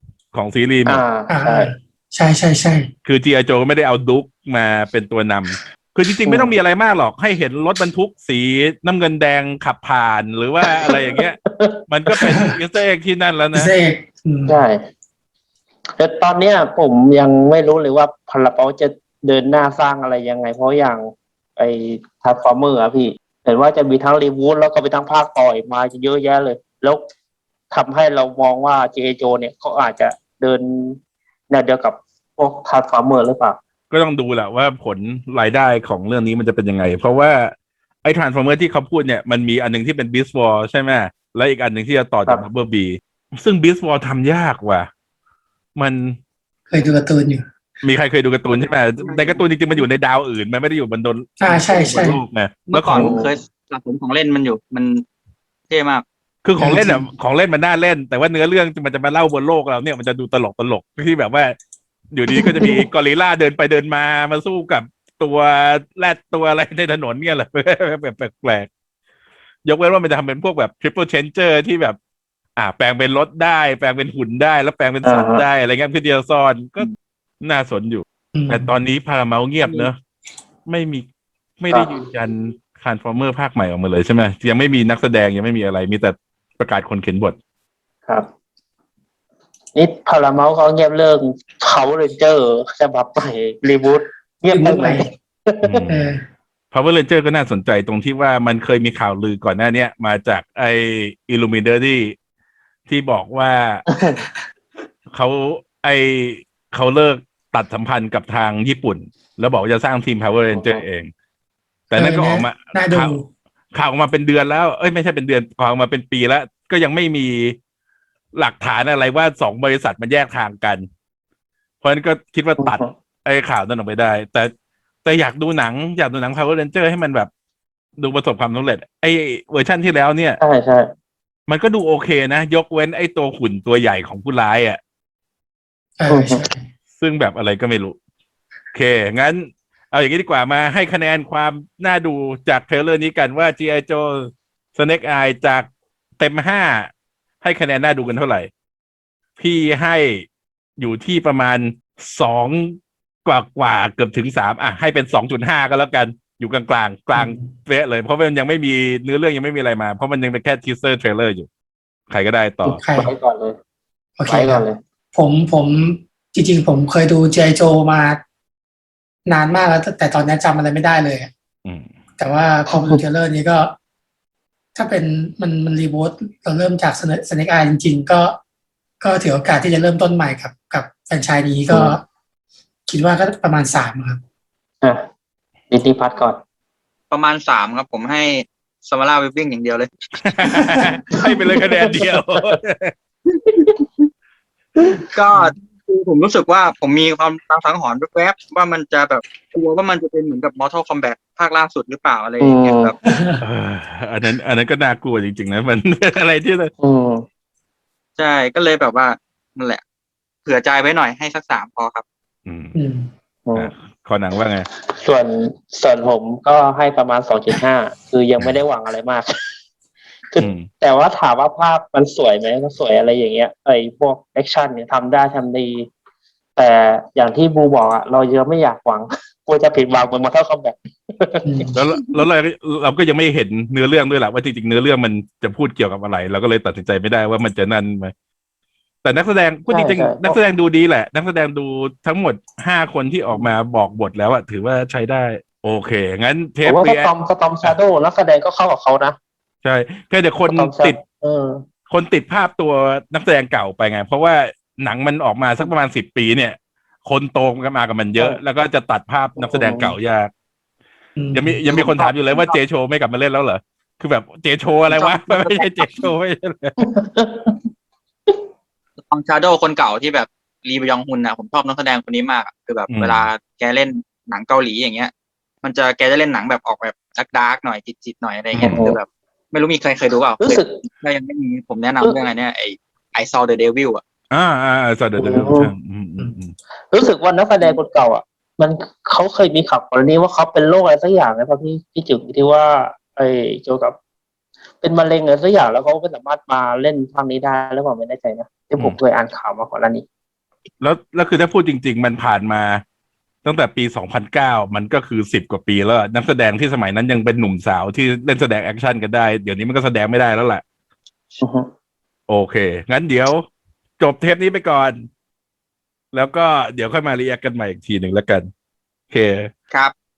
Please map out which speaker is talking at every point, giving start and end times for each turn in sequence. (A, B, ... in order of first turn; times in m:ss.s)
0:00.3-0:01.0 A
0:00.9-0:01.7 B
0:01.3-0:02.9 C
0:03.0-0:13.7 A
0:06.3-0:06.6 B
0:11.5-0:11.8 B
0:13.5-0:14.6 C
0:14.5-0:14.8 B
0:16.0-0:27.0 B
0:27.7-0:31.0 B
0:31.5-0:33.6 B
0:33.9-0:44.9 A
0:45.8-0:46.2 A
0:46.7-0:47.4 C
0:47.8-0:53.2 A
0:49.0-0:49.4 D
0:51.4-0:52.2 C
0:52.7-0:55.0 D
0:52.9-0:53.3 B
0:55.7-0:56.0 D
0:56.4-1:01.6 A
0:56.6-0:57.1 C
1:02.1-1:08.7 A
1:02.4-1:02.7 C
1:09.6-1:12.0 A
1:12.6-1:16.9 A
1:15.0-1:15.4 B
1:17.4-1:20.0 A
1:18.3-1:18.7 C
1:20.7-1:21.0 A
1:21.6-1:27.4 A
1:29.8-1:35.8 B
1:34.5-1:35.1 C
1:35.6-1:36.1 A
1:35.9-1:36.2 C
1:36.7-1:42.2 A
1:42.9-1:43.9 A
1:43.9-1:44.2 B
1:45.1-1:51.1 A
1:50.5-1:50.8 B
1:51.9-1:53.2 A
1:51.9-1:53.3 C
1:53.7-1:57.6 A
1:58.4-2:00.9 A
2:01.8-2:04.5 A
2:02.6-2:02.9 B
2:05.0-2:07.3 A
2:08.0-2:10.4 A
2:10.4-2:10.9 B
2:11.5-2:14.8 A
2:16.0-2:16.6 C
2:16.1-2:16.5 B
2:17.0-2:18.0 A
2:18.7-2:25.7 A
2:26.2-2:26.9 A
2:27.4-2:28.5 A
2:29.4-2:30.3 A
2:30.8-2:41.5 A
2:37.2-2:37.5 C
2:42.1-2:42.8 A
2:42.7-2:43.6 B
2:42.8-2:43.1 C
2:44.2-2:48.2 C
2:44.3-2:44.8 B
2:49.3-2:51.3 C
2:51.6-2:51.9 A
2:52.2-2:53.7 C
2:52.7-2:53.0 B
2:54.8-2:58.4 C
2:59.0-3:02.0 C
3:01.7-3:02.0 B
3:02.9-3:04.2 C
3:05.7-3:06.4 B
3:07.1-3:09.9 D
3:10.2-3:12.9 A
3:15.1-3:23.0 D
3:22.4-3:22.9 B
3:23.1-3:23.4 C
3:23.4-3:26.7 A
3:26.8-3:27.2 B
3:28.2-3:29.8 D
3:30.4-3:32.0 D
3:32.5-3:32.8 A
3:32.7-3:33.1 C
3:33.6-3:34.7 A
3:34.9-3:39.4 B
3:40.3-3:45.9 B
3:40.4-3:40.7 A
3:46.6-3:51.8 B
3:51.4-3:51.7 C
3:51.8-3:58.1 A
3:59.0-4:07.1 A
3:59.7-4:00.4 B
4:06.6-4:09.2 B
4:09.6-4:11.0 A
4:10.5-4:11.6 B
4:11.9-4:20.3 A
4:19.4-4:19.9 B
4:21.2-4:21.6 C
4:21.3-4:26.8 A
4:21.7-4:22.6 B
4:24.9-4:25.9 D
4:26.8-4:27.6 B
4:29.1-4:35.1 D
4:32.9-4:33.3 A
4:35.6-4:44.0 D
4:38.5-4:38.9 A
4:38.6-4:39.0 B
4:40.4-4:40.8 B
4:44.3-4:46.5 A
4:45.2-4:45.7 B
4:46.9-4:54.0 B
4:54.8-5:00.0 B
5:00.8-5:02.8 A
5:03.4-5:10.6 A
5:11.4-5:11.7 B
5:12.3-5:13.4 A
5:14.0-5:15.0 A
5:16.1-5:18.5 A
5:19.1-5:19.5 A